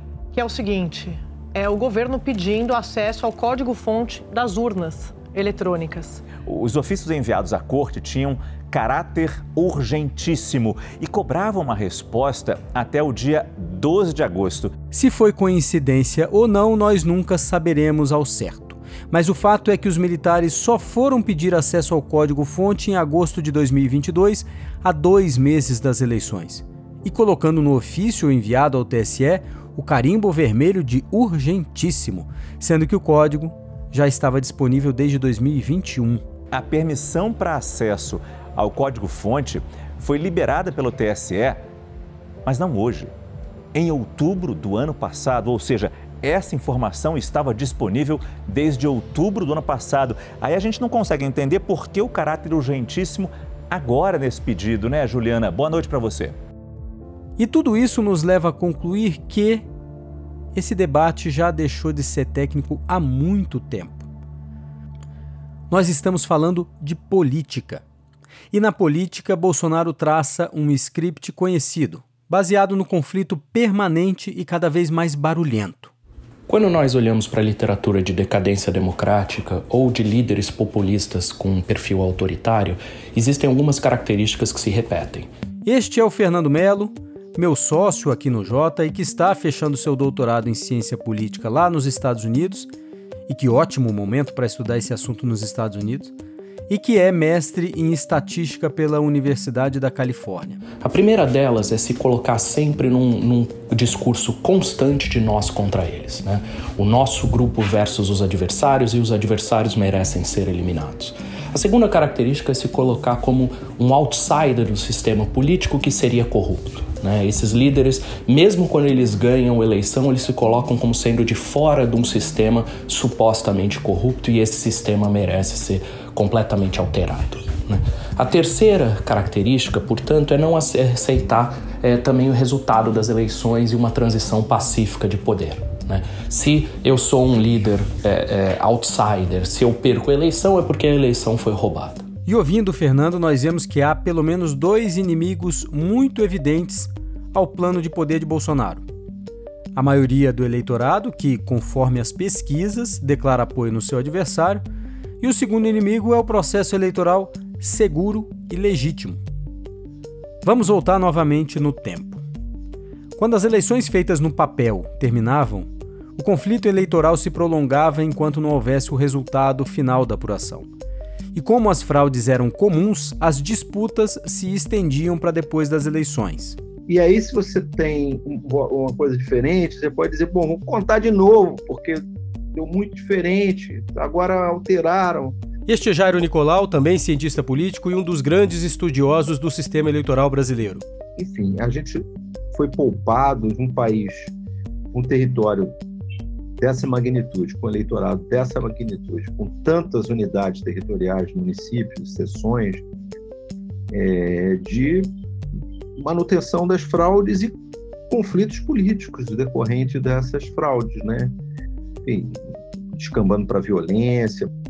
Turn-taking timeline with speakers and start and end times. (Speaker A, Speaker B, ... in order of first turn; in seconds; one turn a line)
Speaker A: 0.3-6.2
Speaker B: 6.4-14.7
Speaker C: 14.9-36.2
Speaker B: 36.5-41.6
Speaker B: 42.5-43.1
Speaker B: 43.7-56.4
Speaker C: 57.4-59.7
Speaker C: 60.5-64.1
Speaker C: 65.7-67.8
Speaker C: 68.5-75.9
Speaker D: 76.5-85.3
Speaker C: 85.7-92.7
Speaker C: 93.3-96.1
Speaker C: 96.7-100.6
Speaker D: 100.8-142.1
Speaker C: 142.3-148.8
Speaker C: 149.8-154.6
Speaker C: 155.2-159.2
Speaker C: 160.4-162.2
Speaker C: 163.2-170.7
Speaker C: 171.3-176.6
Speaker E: 176.9-182.0
Speaker E: 182.6-185.4
Speaker C: 185.7-190.8
Speaker E: 191.2-194.3
Speaker E: 194.9-195.8
Speaker E: 196.6-202.8
Speaker E: 203.9-205.1
Speaker E: 206.0-207.6
Speaker E: 208.1-211.3
Speaker E: 212.1-214.5